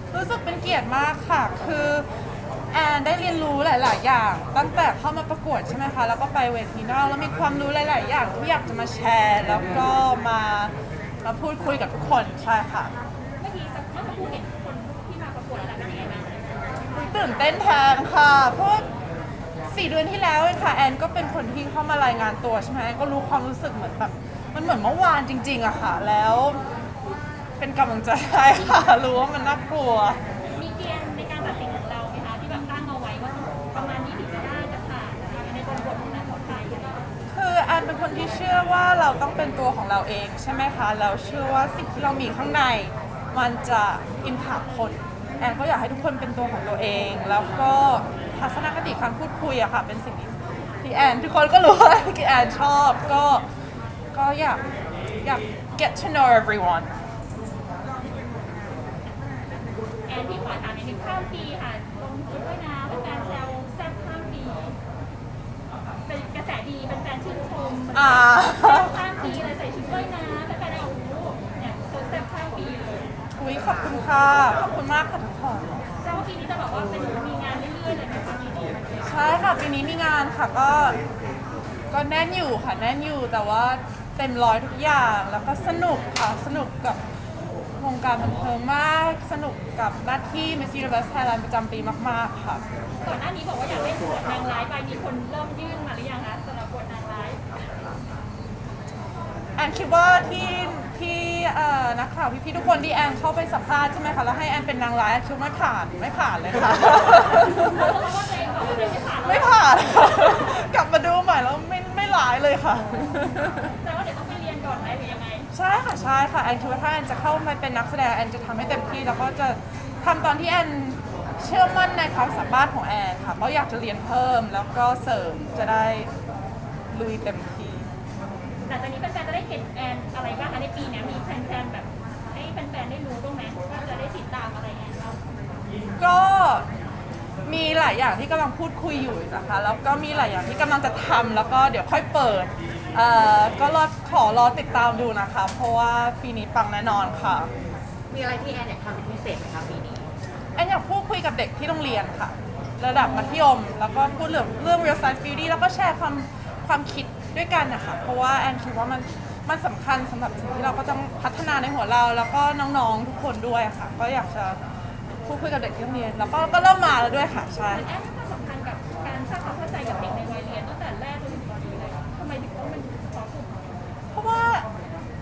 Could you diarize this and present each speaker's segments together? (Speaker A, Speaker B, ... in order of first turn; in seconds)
Speaker A: 0.1-2.1, 2.7-12.9, 16.9-18.9, 19.7-26.6, 27.6-30.2, 37.3-53.5, 54.1-54.6, 55.2-56.9, 67.9-69.0, 73.4-75.9, 79.0-81.0, 81.9-87.0, 87.8-92.6, 99.6-108.0, 109.2-113.8, 115.5-126.1, 126.9-127.9, 136.0-136.7, 137.4-147.5, 150.6-164.6, 165.2-167.9, 174.1-174.7
Speaker B: 13.4-16.8, 30.5-37.1, 60.1-64.8, 66.0-73.1, 76.0-79.1, 93.0-97.6, 107.3-110.3, 113.8-115.5, 128.7-135.2, 167.7-173.7
Speaker C: 148.1-150.1